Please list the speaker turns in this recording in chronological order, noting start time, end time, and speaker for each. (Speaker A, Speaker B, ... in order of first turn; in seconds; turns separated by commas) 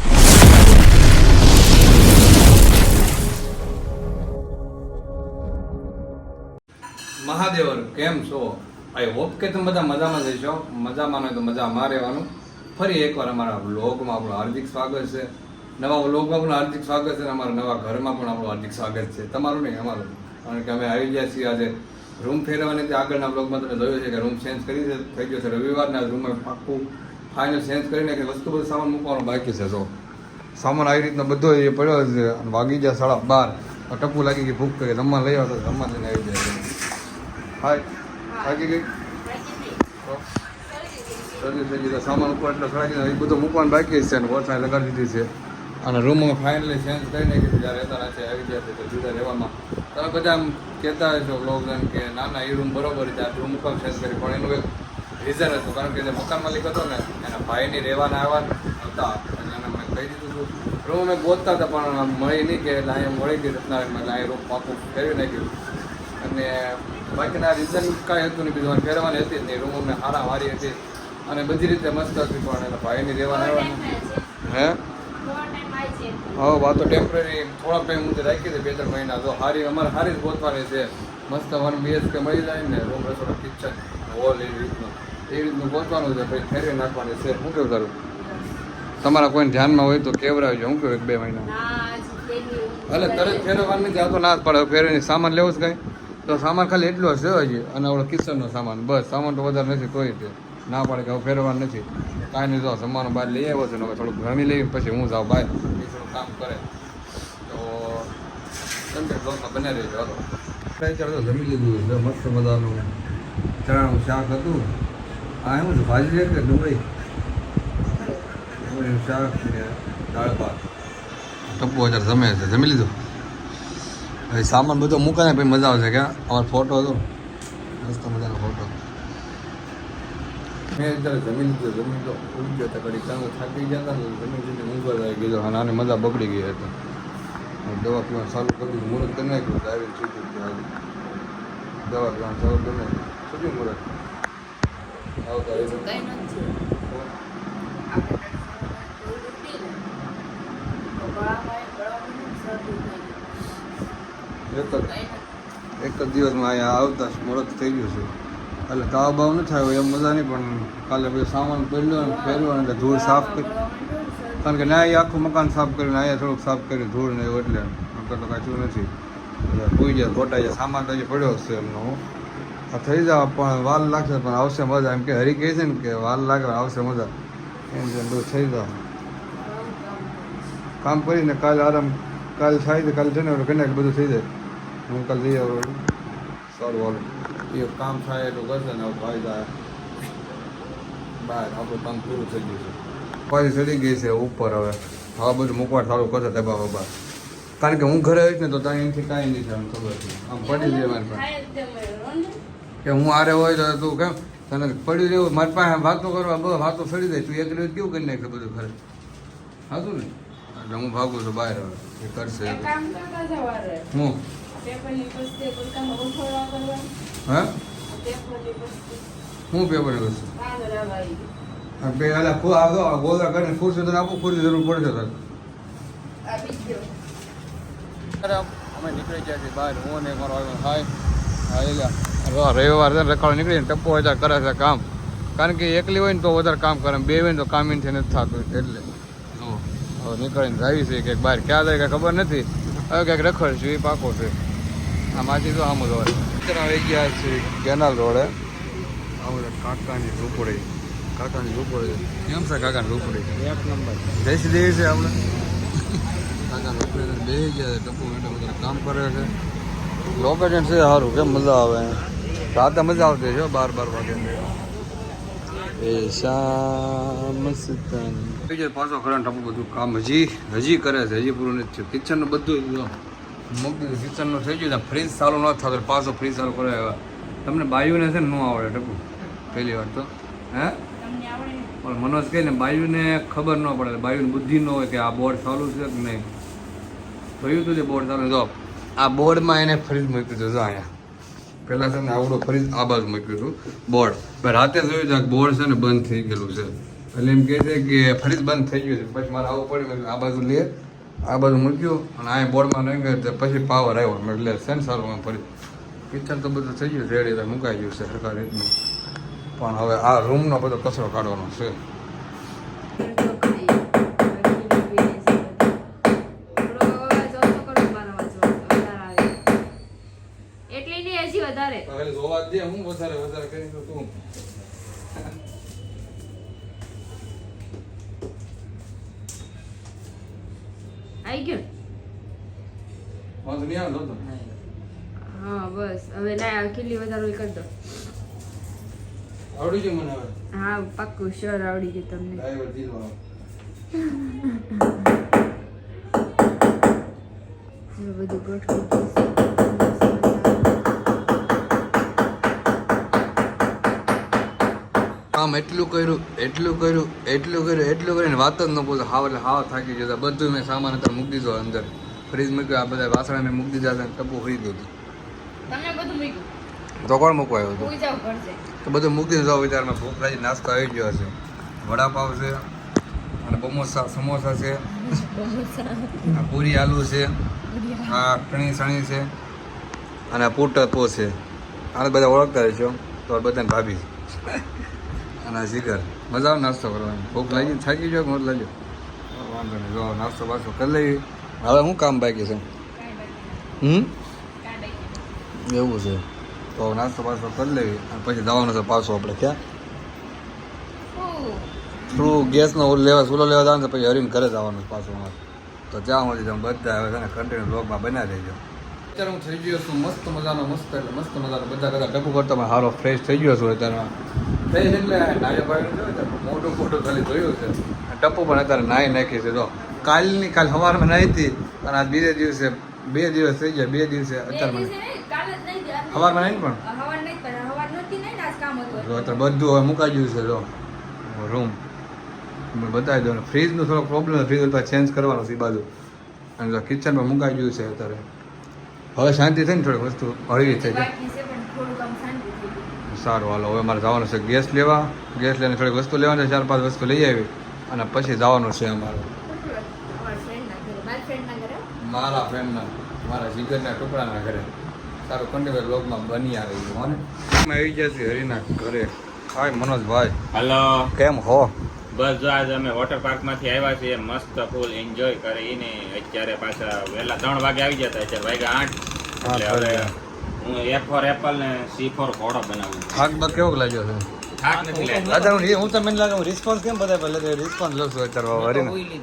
Speaker A: 7.2-29.9, Speaker A: 30.6-36.7, Speaker A: 37.6-37.9, Speaker B: 38.3-39.8, Speaker A: 38.4-38.9, Speaker B: 40.6-41.6, Speaker A: 41.4-45.3, Speaker A: 45.8-54.7, Speaker A: 55.2-65.5, Speaker A: 66.2-73.9, Speaker B: 73.3-74.3, Speaker A: 74.5-74.8, Speaker B: 75.2-76.6, Speaker A: 76.4-87.9, Speaker B: 88.1-88.4, Speaker A: 89.0-91.5, Speaker B: 91.4-94.1, Speaker A: 92.9-106.6, Speaker A: 107.5-108.1, Speaker A: 108.9-112.9, Speaker A: 113.6-114.7, Speaker A: 115.4-116.8, Speaker B: 117.9-118.2, Speaker A: 118.4-120.7, Speaker A: 121.5-122.9, Speaker A: 124.3-127.0, Speaker A: 127.8-128.7, Speaker A: 130.7-136.7, Speaker A: 137.6-140.7, Speaker A: 141.8-143.9, Speaker A: 145.2-145.9, Speaker B: 145.5-146.6, Speaker B: 147.9-149.8, Speaker B: 150.9-153.2, Speaker A: 154.5-154.9, Speaker B: 154.9-155.2, Speaker A: 155.8-158.1, Speaker A: 158.7-163.5, Speaker B: 161.9-164.9, Speaker A: 164.4-168.9, Speaker A: 169.5-172.0, Speaker A: 172.7-177.1, Speaker A: 177.7-178.8, Speaker B: 179.3-180.3, Speaker A: 180.8-184.3, Speaker A: 184.9-185.8, Speaker A: 186.5-189.5, Speaker A: 191.2-192.8, Speaker A: 193.3-196.9, Speaker A: 197.6-201.2, Speaker B: 200.4-202.4, Speaker A: 202.8-208.8, Speaker A: 209.7-212.7, Speaker B: 212.3-213.9, Speaker A: 213.9-214.2, Speaker B: 214.5-216.9, Speaker A: 217.3-217.5, Speaker B: 217.9-219.0, Speaker A: 219.5-220.3, Speaker B: 220.3-221.3, Speaker A: 221.8-225.2, Speaker B: 226.2-226.9, Speaker A: 228.2-230.9, Speaker A: 231.5-234.8, Speaker A: 235.4-244.4, Speaker A: 245.1-248.3, Speaker A: 249.2-253.4, Speaker C: 253.4-254.0, Speaker A: 254.1-255.2, Speaker A: 256.5-259.3, Speaker A: 260.2-262.0, Speaker A: 262.5-264.6, Speaker A: 265.8-272.9, Speaker A: 273.5-280.8, Speaker B: 279.5-279.8, Speaker B: 281.0-281.7, Speaker A: 281.8-286.2, Speaker A: 287.4-290.9, Speaker A: 291.7-300.7, Speaker A: 301.2-305.5, Speaker A: 306.1-308.7, Speaker A: 309.6-311.8, Speaker B: 313.0-315.8, Speaker B: 316.6-319.3, Speaker B: 320.7-321.9, Speaker A: 321.9-324.1, Speaker B: 331.2-331.6, Speaker A: 333.4-334.2, Speaker B: 335.3-337.7, Speaker A: 339.5-340.3, Speaker B: 340.5-342.4, Speaker A: 342.3-343.2, Speaker B: 344.0-344.4, Speaker B: 348.0-351.0, Speaker A: 355.3-364.9, Speaker B: 365.7-366.5, Speaker A: 367.0-367.9, Speaker B: 367.8-368.6, Speaker A: 368.8-372.6, Speaker A: 373.4-374.8, Speaker B: 374.9-376.4, Speaker A: 376.3-377.3, Speaker B: 377.7-378.2, Speaker A: 378.1-379.3, Speaker A: 380.3-381.4, Speaker A: 381.9-384.6, Speaker A: 385.4-388.7, Speaker B: 387.5-387.7, Speaker A: 389.3-392.6, Speaker B: 392.9-393.7, Speaker A: 393.8-394.1, Speaker B: 394.6-395.2, Speaker A: 395.6-396.2, Speaker A: 396.8-399.6, Speaker B: 401.1-402.7, Speaker A: 402.1-405.4, Speaker A: 405.9-408.6, Speaker A: 409.1-414.1, Speaker A: 414.7-424.9, Speaker B: 424.5-429.4, Speaker A: 426.1-426.8, Speaker A: 428.9-430.7, Speaker A: 431.2-431.8, Speaker A: 432.7-435.9, Speaker A: 436.6-438.2, Speaker A: 439.1-441.1, Speaker B: 440.6-442.9, Speaker A: 443.1-449.3, Speaker B: 449.4-451.8, Speaker A: 452.0-454.7, Speaker A: 455.3-460.4, Speaker C: 460.5-461.1, Speaker A: 461.1-461.7, Speaker C: 462.1-473.4, Speaker A: 469.4-470.1, Speaker A: 473.1-474.3, Speaker C: 474.6-475.7, Speaker A: 475.1-479.0